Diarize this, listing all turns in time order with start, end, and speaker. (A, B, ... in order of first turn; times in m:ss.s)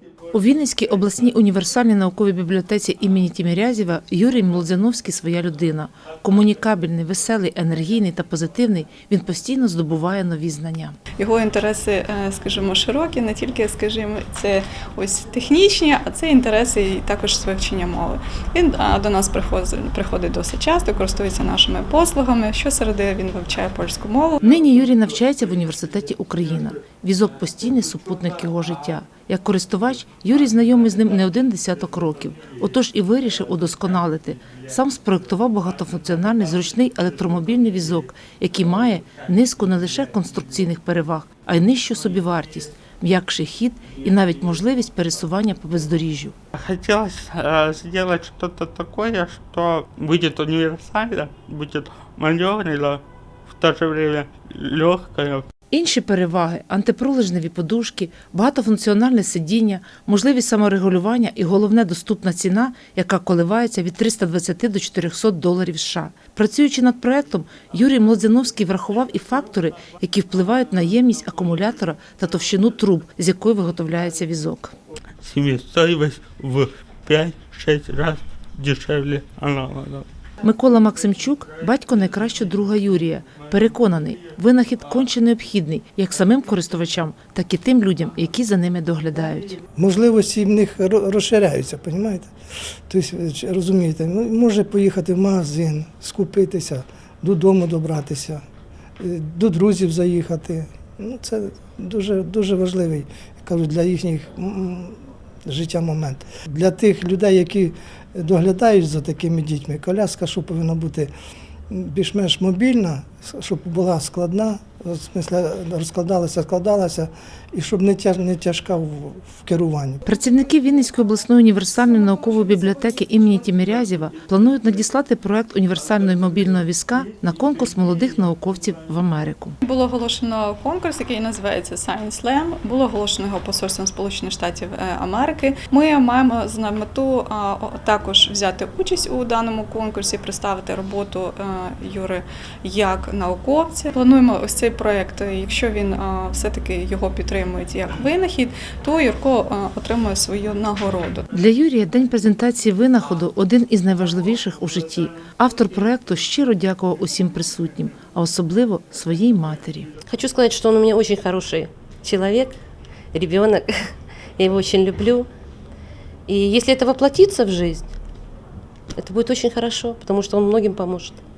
0:00.3-0:11.0 A
0:11.2-0:24.4 B
0:24.4-0:46.4 A
0:46.6-0:55.5 C
0:55.7-1:14.7 A
1:15.2-1:20.1 C
1:20.4-1:29.6 A
1:29.8-1:32.3 D
1:32.9-1:38.4 D
1:39.0-1:51.1 D
1:51.7-2:00.0 D
2:00.1-2:09.6 A
2:09.6-2:31.3 B
2:31.3-2:39.9 A
2:40.0-2:42.6 E
2:43.1-2:45.3 E
2:46.3-2:47.8 E
2:49.0-2:51.2 E